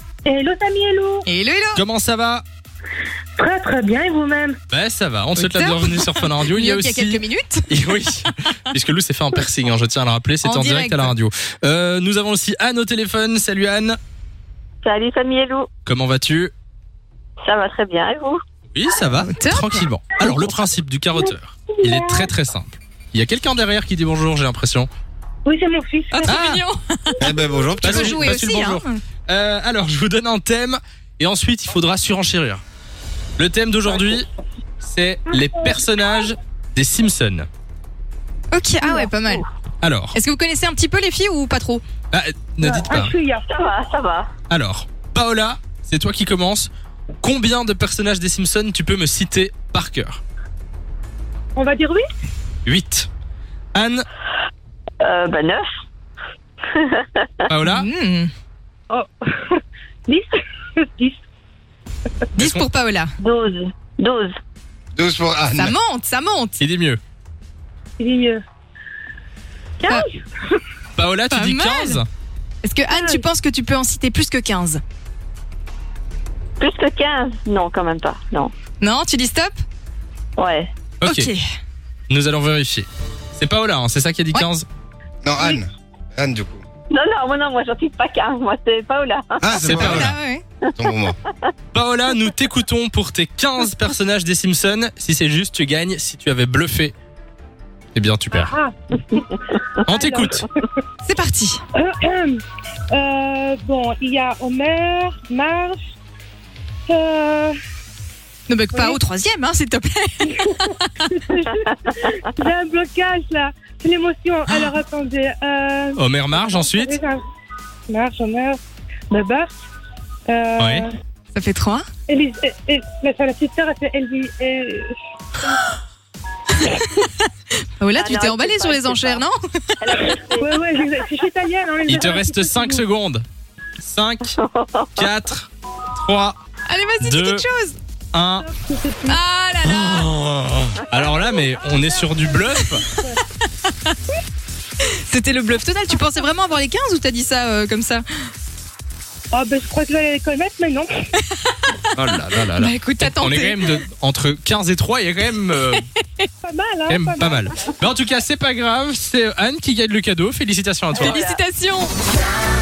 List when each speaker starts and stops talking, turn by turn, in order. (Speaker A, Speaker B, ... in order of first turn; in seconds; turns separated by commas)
Speaker A: 0.2-1.2, Speaker B: 1.3-1.8, Speaker C: 1.7-2.4, Speaker A: 3.4-4.6, Speaker C: 4.7-14.0, Speaker B: 5.4-8.3, Speaker B: 10.4-11.1, Speaker D: 14.8-15.7, Speaker C: 15.8-16.5, Speaker D: 17.4-18.4, Speaker C: 18.7-24.9, Speaker B: 19.4-19.9, Speaker A: 21.8-22.3, Speaker A: 25.4-26.3, Speaker B: 26.1-29.0, Speaker C: 26.3-26.6, Speaker E: 27.2-28.2, Speaker C: 27.8-32.6, Speaker C: 33.4-34.2, Speaker C: 34.8-37.5, Speaker B: 38.5-39.4, Speaker D: 38.8-39.4, Speaker C: 39.8-40.2, Speaker B: 40.1-41.8, Speaker C: 42.1-43.1, Speaker A: 42.6-43.5, Speaker D: 43.5-44.3, Speaker C: 44.5-46.7, Speaker C: 47.2-50.2, Speaker A: 51.5-52.0, Speaker C: 52.7-53.1, Speaker C: 53.7-54.0, Speaker D: 55.0-55.7, Speaker D: 56.7-57.3, Speaker C: 57.5-57.9, Speaker B: 57.7-58.3, Speaker A: 58.9-61.2, Speaker B: 62.4-63.1, Speaker C: 62.4-62.7, Speaker D: 63.2-64.3, Speaker E: 65.0-65.8, Speaker B: 65.5-66.6, Speaker C: 66.6-67.0, Speaker A: 68.0-68.4, Speaker A: 69.8-70.2, Speaker C: 71.0-72.1, Speaker B: 71.3-72.0, Speaker B: 72.6-74.8, Speaker A: 72.9-73.2, Speaker D: 76.6-78.5, Speaker B: 78.8-79.6, Speaker D: 80.4-80.7, Speaker C: 81.0-81.3, Speaker B: 81.1-81.4, Speaker C: 82.1-84.7, Speaker E: 85.2-86.6, Speaker D: 86.9-89.4, Speaker E: 89.4-90.2, Speaker C: 89.6-90.2, Speaker B: 89.8-90.4, Speaker E: 90.8-91.2, Speaker C: 91.7-97.0, Speaker C: 97.9-98.5, Speaker A: 98.4-99.3, Speaker A: 99.8-100.8, Speaker C: 99.8-100.5, Speaker B: 101.0-101.6, Speaker A: 101.7-105.9, Speaker A: 106.9-107.5, Speaker B: 108.5-110.9, Speaker A: 108.7-109.0, Speaker A: 110.2-117.2, Speaker C: 116.0-117.0, Speaker A: 117.9-118.6, Speaker A: 119.1-119.5, Speaker A: 120.3-120.9, Speaker C: 120.6-120.9, Speaker B: 121.3-121.9, Speaker A: 122.1-125.5, Speaker B: 126.5-127.3, Speaker B: 127.8-129.8, Speaker D: 128.0-129.2, Speaker D: 129.8-130.6, Speaker A: 129.9-132.8, Speaker C: 131.9-133.2, Speaker C: 133.8-134.4, Speaker D: 134.4-135.0, Speaker C: 135.0-136.4, Speaker B: 136.7-137.8, Speaker C: 137.0-137.5, Speaker C: 138.1-138.5, Speaker A: 138.4-139.2, Speaker B: 139.1-140.1, Speaker C: 139.7-142.9, Speaker B: 142.5-142.8, Speaker A: 142.8-143.2, Speaker B: 143.4-143.9, Speaker B: 144.8-148.0, Speaker A: 149.3-150.9, Speaker B: 151.3-153.6, Speaker C: 151.9-155.8, Speaker B: 155.7-156.3, Speaker A: 156.4-157.5, Speaker C: 156.9-161.2, Speaker D: 160.9-161.4, Speaker B: 161.0-161.9